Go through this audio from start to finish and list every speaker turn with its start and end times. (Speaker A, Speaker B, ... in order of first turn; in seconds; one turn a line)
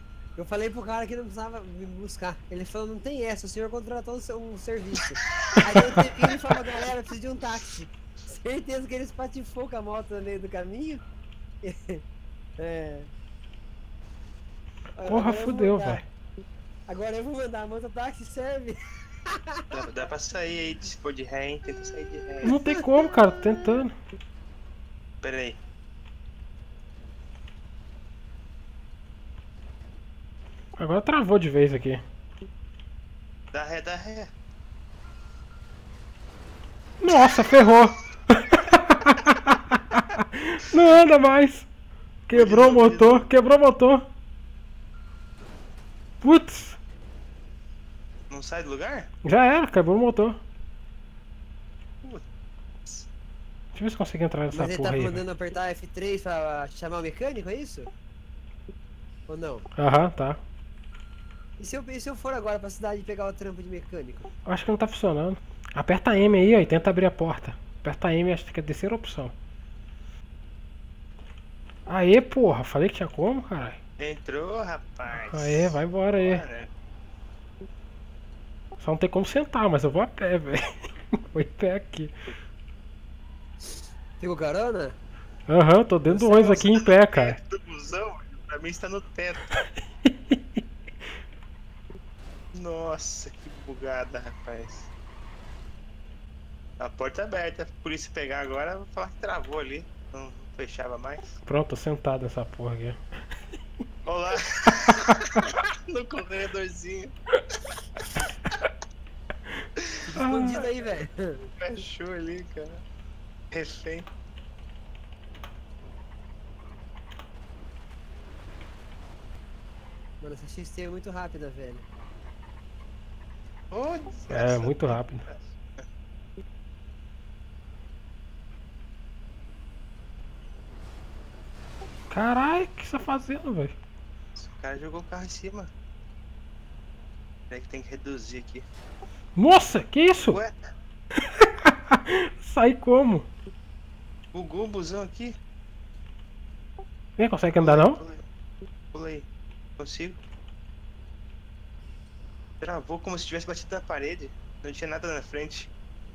Speaker A: 0.4-11.0
Speaker A: 11.6-12.0
Speaker A: 12.6-13.1
Speaker A: 15.0-16.0
Speaker B: 15.0-16.0
Speaker A: 16.9-18.8
Speaker A: 19.3-19.6
Speaker C: 19.7-22.5
Speaker B: 22.4-23.9
Speaker A: 22.7-23.8
Speaker C: 25.2-25.6
Speaker B: 30.8-32.0
Speaker C: 33.5-34.3
Speaker B: 37.0-41.7
Speaker B: 42.3-44.1
Speaker C: 42.3-43.3
Speaker B: 46.2-46.8
Speaker C: 48.3-49.1
Speaker B: 49.2-50.4
Speaker C: 52.0-52.3
Speaker B: 53.7-55.2
Speaker A: 54.5-57.9
Speaker A: 59.3-59.7
Speaker B: 59.8-60.4
Speaker A: 61.6-64.3
Speaker B: 64.5-69.3
Speaker B: 71.9-73.8
Speaker C: 74.0-76.7
Speaker B: 75.1-76.4
Speaker B: 78.8-80.6
Speaker B: 81.3-82.1
Speaker A: 84.2-85.0
Speaker B: 85.5-87.4
Speaker A: 86.1-86.7
Speaker C: 86.8-89.4
Speaker B: 90.0-90.6
Speaker C: 92.5-94.9
Speaker C: 96.8-101.4
Speaker B: 101.5-103.0
Speaker C: 104.0-107.1
Speaker A: 110.1-111.5
Speaker B: 110.2-110.7
Speaker C: 111.6-112.8
Speaker C: 113.5-114.1
Speaker A: 120.2-121.9
Speaker C: 123.7-125.6
Speaker B: 124.3-125.2
Speaker B: 132.1-133.8
Speaker C: 134.4-135.7
Speaker C: 137.5-138.7
Speaker B: 139.4-140.4
Speaker B: 141.4-143.3
Speaker C: 144.3-145.4
Speaker B: 147.2-148.0
Speaker C: 147.6-148.2
Speaker C: 148.9-149.3
Speaker C: 149.8-150.2
Speaker C: 152.6-155.7